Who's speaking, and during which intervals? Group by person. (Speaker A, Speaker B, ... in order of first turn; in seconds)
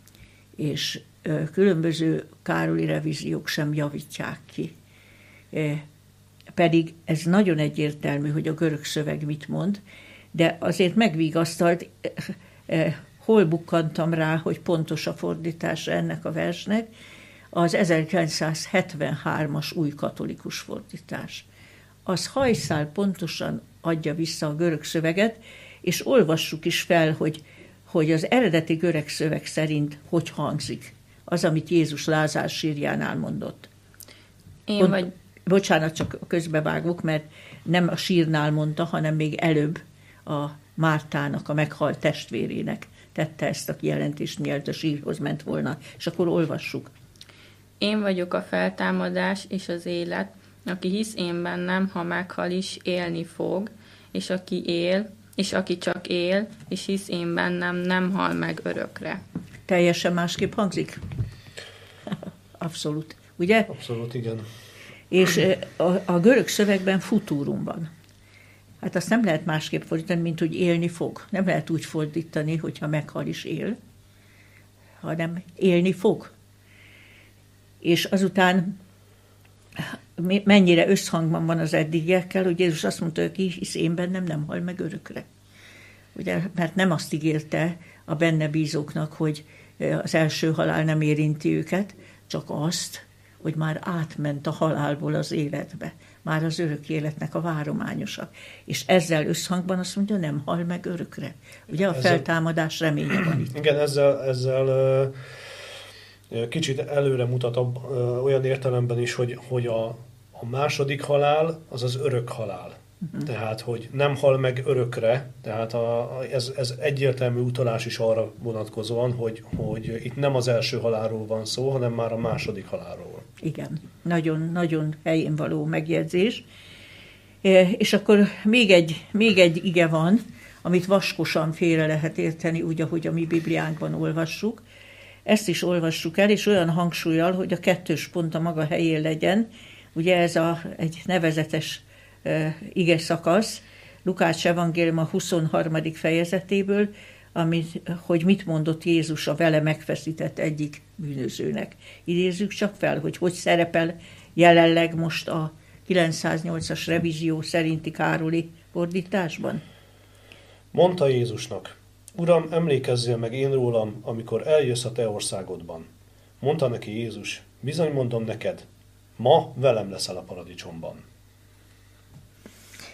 Speaker A: 0.6-4.7, 5.5-5.8, 6.5-9.8, 10.3-16.9, 17.5-21.5, 22.1-33.7, 34.8-46.9, 59.7-61.0, 62.1-63.7, 65.1-67.9, 68.8-73.8, 75.0-76.3, 77.8-78.8, 79.8-85.2, 86.1-103.5, 123.4-126.5, 127.4-134.6, 135.3-159.6
Speaker B: 34.7-35.1, 47.8-59.2
Speaker C: 63.7-64.5, 102.0-102.2, 103.2-105.1, 106.3-123.3, 160.7-165.9, 166.4-168.6, 169.2-171.0